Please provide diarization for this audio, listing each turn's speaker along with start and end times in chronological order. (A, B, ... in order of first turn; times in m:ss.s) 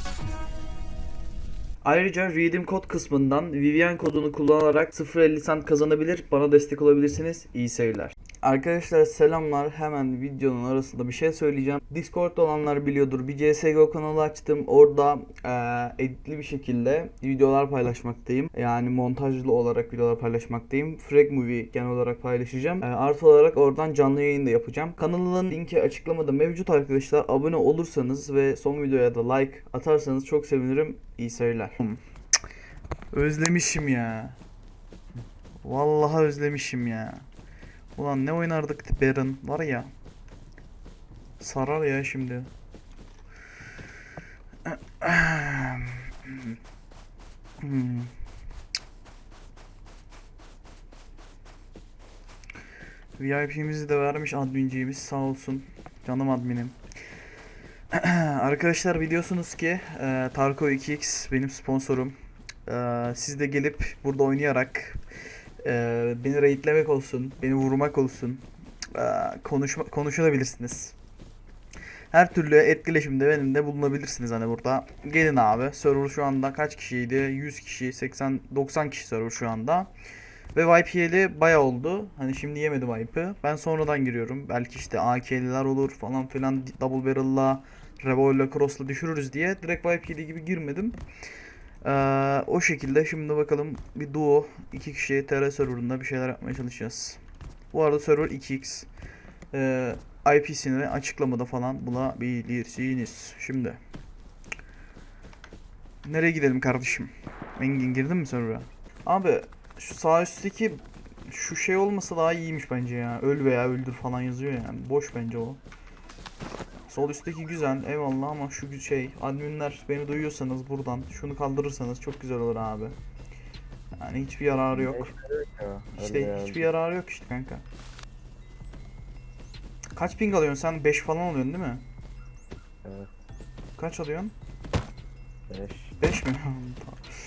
0:01.8-0:32.0 A
0:33.1-0:34.4 A
0:35.6-0:37.2 A
0:38.0-0:39.9 A
0:41.4-0:42.5 A
0:44.6-0:46.6 A
0:47.6-0:48.1 A
0:53.2-0:56.8 A
0:57.9-1:02.1 A
1:02.6-1:05.0 A
1:05.6-1:10.9 A
1:12.1-1:19.9 A
1:20.5-1:31.0 A
1:31.8-1:37.2 A
1:37.7-1:38.9 A
1:39.5-1:43.8 A
1:46.0-1:55.6 A
1:56.9-2:02.9 A
2:04.0-2:05.1 A
2:04.7-2:06.7 B
2:06.0-2:07.6 A
2:10.0-2:11.8 A
2:12.8-2:13.1 B
2:13.8-2:14.3 A
2:15.5-2:16.0 B
2:16.0-2:17.0 A